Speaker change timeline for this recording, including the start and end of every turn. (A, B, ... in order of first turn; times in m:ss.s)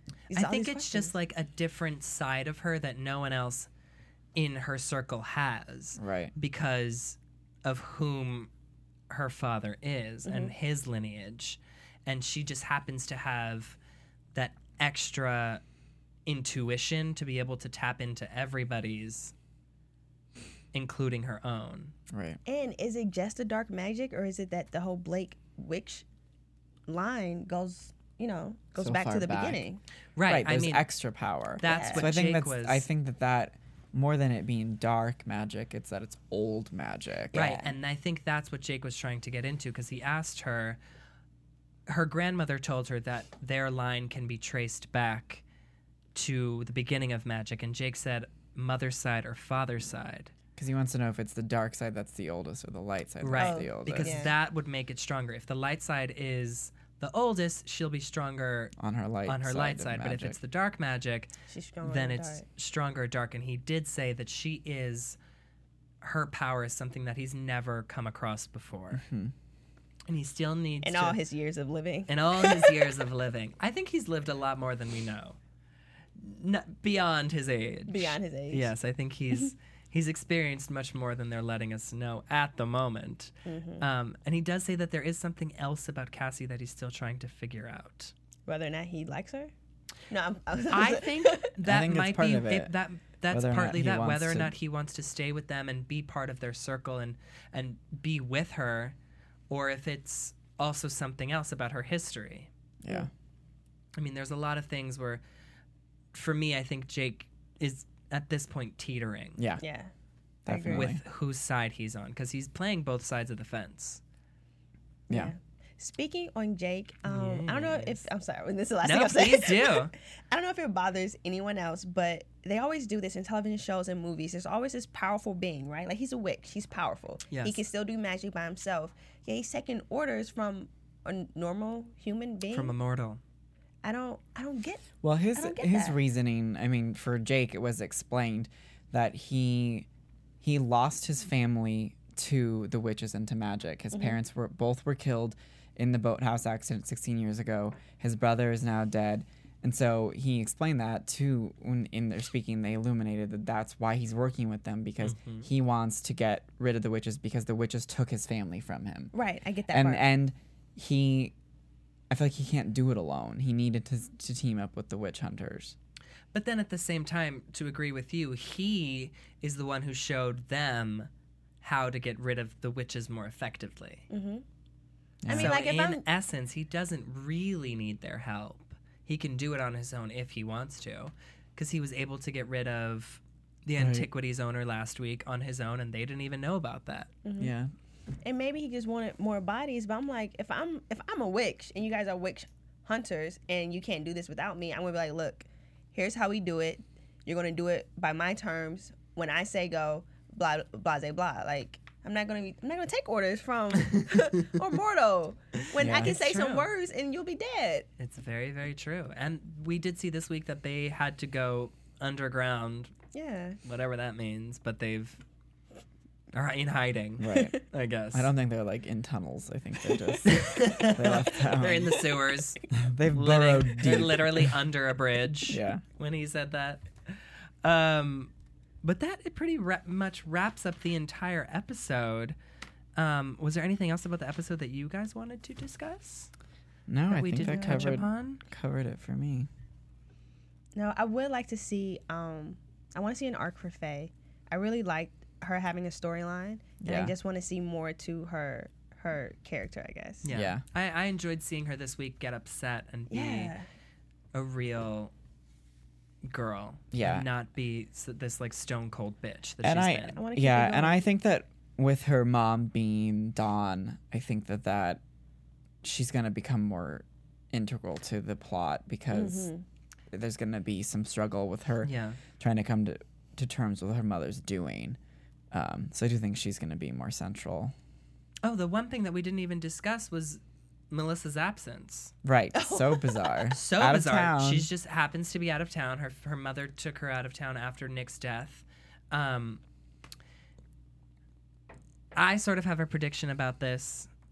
0:00.3-0:01.1 A
0:00.3-0:03.7 B
0:04.3-0:08.5 B
0:06.0-0:06.3 C
0:09.1-0:13.8 B
0:10.2-0:10.5 A
0:14.3-0:15.6 B
0:16.2-0:19.3 B
0:20.7-0:21.9 B
0:22.1-0:22.4 C
0:22.4-0:26.0 A
0:26.9-0:29.8 A
0:28.8-0:29.6 C
0:30.2-0:30.9 B
0:30.3-0:37.5 C
0:31.6-0:32.8 B
0:31.6-0:32.1 A
0:37.3-0:37.7 A
0:37.3-0:40.8 B
0:41.9-0:45.4 B
0:46.1-0:50.3 B
0:50.6-0:54.3 C
0:53.2-0:58.7 B
0:53.3-0:54.3 A
0:58.8-1:00.4 C
0:59.2-1:05.2 B
1:01.5-1:02.4 A
1:06.0-1:09.0 B
1:08.9-1:09.3 C
1:10.1-1:11.2 B
1:10.8-1:12.9 A
1:12.1-1:15.4 B
1:16.2-1:28.1 B
1:17.9-1:18.7 A
1:23.4-1:23.8 A
1:28.5-1:29.5 A
1:30.1-1:31.5 A
1:30.7-1:39.0 B
1:31.6-1:32.7 C
1:33.3-1:34.5 C
1:39.5-1:42.5 B
1:42.8-1:43.1 C
1:44.0-1:45.2 B
1:46.1-1:49.4 B
1:49.4-1:49.6 C
1:49.6-1:49.9 A
1:50.4-1:51.0 C
1:50.5-1:50.9 A
1:50.7-1:54.0 B
1:55.1-1:55.3 C
1:55.1-2:12.7 A
1:57.0-1:58.0 B
1:58.8-1:59.9 B
2:07.3-2:07.6 B
2:12.5-2:13.2 B
2:13.8-2:16.0 A
2:15.0-2:19.9 C
2:20.4-2:39.1 C
2:23.9-2:24.2 A
2:35.0-2:35.5 B
2:39.1-2:40.0 A
2:39.7-2:41.3 C
2:42.1-2:45.8 C
2:46.3-2:51.1 B
2:51.6-2:54.0 B
2:54.1-2:54.4 A
2:55.2-2:55.6 C
2:55.3-2:56.0 A
2:55.3-3:07.1 B
3:03.8-3:04.1 C
3:07.2-3:07.5 A
3:07.4-3:07.7 C
3:08.2-3:27.9 A
3:25.8-3:26.2 C
3:25.9-3:26.7 B
3:28.0-3:32.9 B
3:33.1-3:33.6 A
3:33.6-3:35.2 B
3:36.3-3:38.3 B
3:37.2-3:37.6 C
3:38.1-3:42.0 C
3:40.2-3:48.3 B
3:42.7-3:44.6 C
3:45.5-3:45.8 C
3:48.8-3:52.4 B
3:53.0-3:56.3 B
3:56.9-3:59.5 C
3:57.1-3:58.4 B
3:57.4-3:58.0 A
4:00.7-4:10.2 A
4:06.8-4:07.1 C
4:10.2-4:13.5 B
4:10.3-4:10.6 C
4:13.1-4:13.6 A
4:14.3-4:15.1 B
4:16.2-4:20.2 B
4:16.9-4:17.3 C
4:19.6-4:25.0 C
4:20.1-4:21.0 A
4:25.8-4:29.5 C
4:29.1-4:29.6 A
4:30.1-4:35.0 C
4:31.8-4:32.2 B
4:35.5-4:37.7 C
4:38.4-4:42.1 B
4:42.2-4:44.7 C
4:42.5-4:43.5 A
4:43.5-4:49.6 B
4:52.1-4:54.1 B